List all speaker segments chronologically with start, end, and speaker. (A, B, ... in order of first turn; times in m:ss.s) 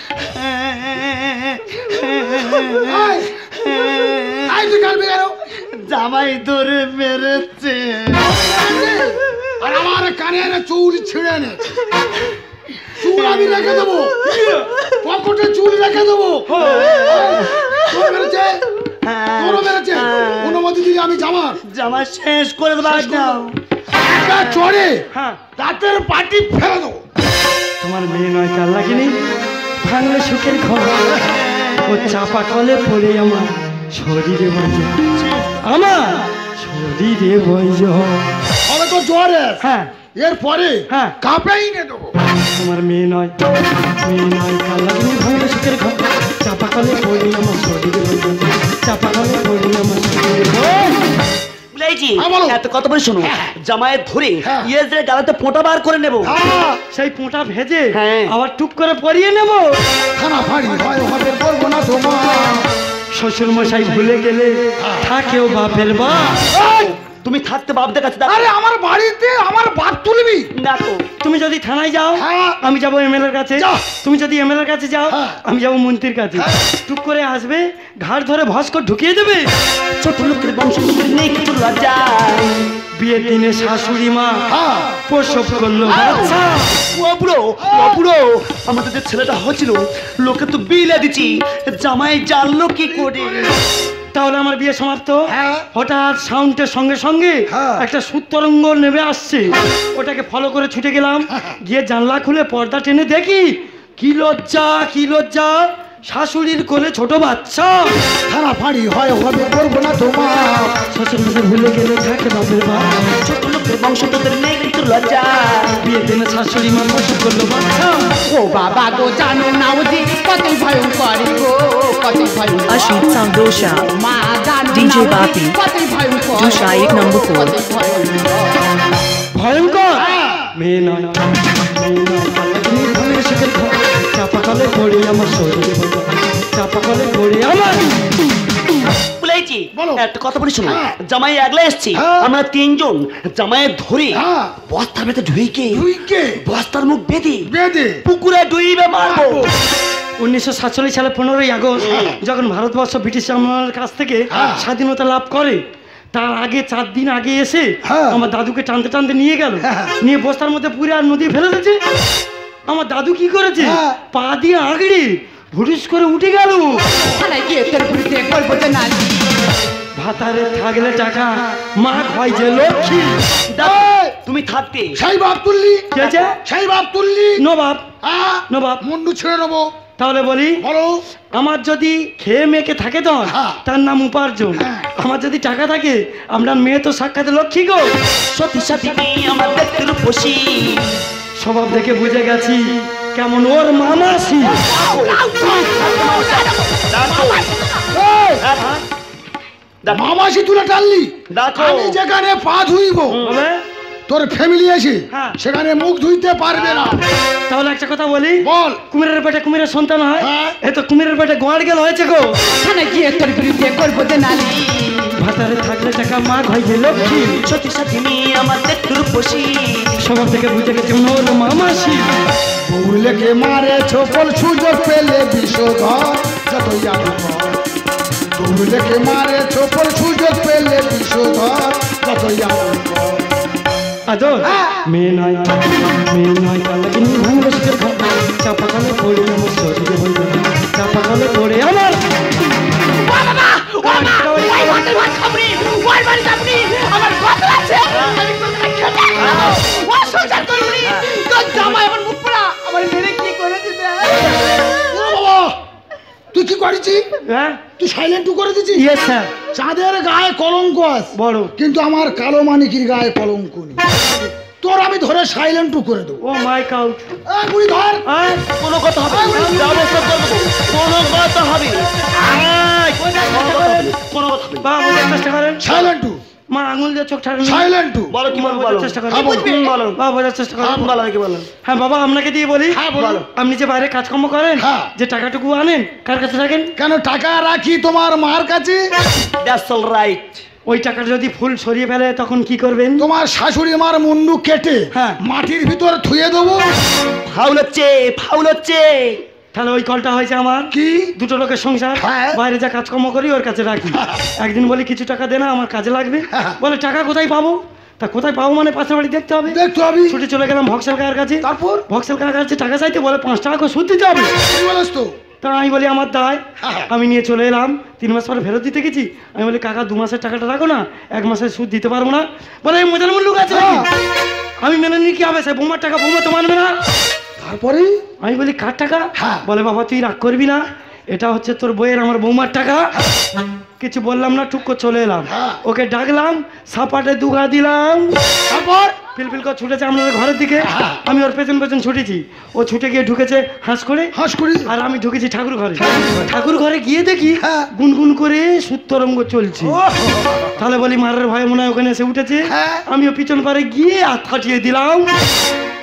0:00.1-0:04.7 A
0:02.9-0:03.3 B
0:04.5-0:05.4 B
0:05.6-0:08.4 A
0:08.2-0:11.7 B
0:13.0-0:14.3 B
0:13.0-0:14.4 A
0:15.0-0:16.5 B
0:16.5-0:17.1 C
0:16.6-0:17.9 A
0:17.1-0:18.6 B
0:19.0-0:20.7 A
0:19.4-0:21.6 B
0:21.7-0:23.6 A
0:22.9-0:23.4 B
0:24.0-0:25.0 B
0:25.1-0:25.4 C
0:25.6-0:27.0 B
0:27.8-0:29.1 C
0:29.8-0:31.2 C
0:31.2-0:32.0 A
0:31.8-0:35.0 C
0:35.6-0:38.3 C
0:38.6-0:39.6 B
0:39.6-0:40.0 C
0:40.2-0:42.1 B
0:42.6-0:43.3 C
0:44.0-0:50.9 C
0:51.7-0:56.4 A
0:52.2-0:52.6 B
0:54.4-0:54.7 B
0:56.2-0:56.8 B
0:56.9-0:59.7 C
0:57.9-0:58.3 A
1:00.2-1:02.7 B
1:03.1-1:06.5 C
1:04.8-1:05.1 B
1:06.5-1:06.9 B
1:07.2-1:08.5 A
1:08.2-1:10.5 B
1:10.6-1:11.0 A
1:11.2-1:19.5 C
1:12.2-1:12.6 B
1:13.6-1:13.8 B
1:15.1-1:15.4 B
1:20.0-1:22.7 A
1:22.9-1:24.5 C
1:24.5-1:25.0 B
1:25.1-1:26.8 C
1:25.8-1:26.2 B
1:26.8-1:33.5 A
1:33.0-1:33.6 B
1:34.1-1:35.2 C
1:35.3-1:35.7 B
1:35.7-1:47.9 C
1:37.5-1:37.8 B
1:48.3-1:50.8 B
1:50.9-1:52.9 C
1:53.2-1:55.8 A
1:55.8-1:58.1 C
1:58.3-2:03.2 D
2:02.7-2:03.9 E
2:03.8-2:08.6 D
2:04.7-2:05.5 E
2:06.3-2:07.5 E
2:09.4-2:10.1 C
2:10.0-2:10.5 B
2:10.6-2:17.9 C
2:19.2-2:25.9 A
2:19.8-2:20.0 B
2:20.6-2:21.0 B
2:21.9-2:22.3 B
2:24.1-2:24.6 B
2:25.7-2:26.4 B
2:26.4-2:27.5 A
2:27.5-2:28.0 B
2:28.1-2:29.5 A
2:29.0-2:29.5 B
2:30.2-2:35.6 C
2:31.8-2:32.1 A
2:34.3-2:34.6 B
2:36.1-2:41.8 C
2:37.9-2:38.2 B
2:39.6-2:39.9 B
2:42.7-2:46.8 C
2:43.6-2:44.0 B
2:47.0-2:49.3 D
2:50.0-2:53.2 C
2:53.5-2:55.0 A
2:53.6-2:54.2 B
2:55.0-2:55.9 B
2:55.9-2:56.3 C
2:56.4-2:57.4 B
2:57.4-2:57.9 C
2:58.0-2:59.7 B
2:58.5-2:58.8 C
3:00.0-3:00.6 C
3:00.6-3:01.0 B
3:01.4-3:07.9 C
3:03.3-3:03.6 B
3:04.6-3:04.9 B
3:08.3-3:11.0 A
3:11.4-3:14.6 C
3:14.6-3:17.5 A
3:14.9-3:17.9 D
3:17.9-3:18.5 B
3:18.4-3:18.7 A
3:19.8-3:20.1 A
3:19.9-3:23.2 B
3:21.3-3:22.0 A
3:23.1-3:23.4 A
3:23.2-3:23.6 C
3:24.1-3:27.0 B
3:27.5-3:32.3 C
3:28.4-3:28.8 B
3:30.2-3:30.6 B
3:32.6-3:35.1 D
3:35.2-3:37.4 C
3:37.3-3:39.9 A
3:40.0-3:42.1 C
3:42.7-3:47.6 B
3:48.4-3:53.3 B
3:54.1-4:02.0 C
3:54.4-3:54.8 B
4:02.8-4:15.1 D
4:03.8-4:04.9 C
4:10.2-4:11.1 A
4:11.6-4:11.8 C
4:14.9-4:15.5 B
4:16.3-4:17.0 B
4:17.3-4:17.6 C
4:17.8-4:18.9 B
4:18.8-4:19.3 C
4:19.5-4:23.8 B
4:21.2-4:21.5 C
4:24.6-4:26.2 B
4:26.2-4:27.1 C
4:27.3-4:28.1 B
4:28.1-4:28.5 C
4:28.6-4:34.7 A
4:29.1-4:30.1 B
4:33.2-4:34.0 C
4:34.6-4:35.9 C
4:35.6-4:36.2 B
4:36.5-4:37.7 C
4:37.4-4:38.2 B
4:38.1-4:40.0 A
4:38.3-4:40.9 C
4:39.1-4:39.5 B
4:40.6-4:40.9 B
4:40.7-4:41.5 A
4:41.6-4:46.7 C
4:42.7-4:43.2 B
4:43.0-4:43.3 A
4:44.6-4:44.9 B
4:46.8-4:48.8 B
4:49.4-4:50.4 A
4:50.7-4:53.1 C
4:53.0-4:56.6 B
4:57.3-4:59.2 A
4:59.5-5:14.3 C
5:00.7-5:01.1 B
5:02.0-5:02.4 B
5:09.5-5:10.2 B
5:11.4-5:11.8 B
5:14.4-5:15.1 B
5:15.4-5:23.9 C
5:16.6-5:16.9 B
5:23.5-5:23.9 B
5:24.6-5:26.8 C
5:27.4-5:28.0 B
5:28.2-5:30.6 C
5:31.1-5:32.9 C
5:33.8-5:38.2 C
5:35.3-5:35.6 B
5:38.5-5:39.0 B
5:39.2-5:44.1 C
5:40.6-5:41.0 B
5:44.2-5:44.7 B
5:44.7-5:49.8 C
5:45.8-5:46.2 B
5:47.4-5:47.7 B
5:49.6-5:50.5 B
5:50.6-5:55.1 C
5:52.5-5:52.8 B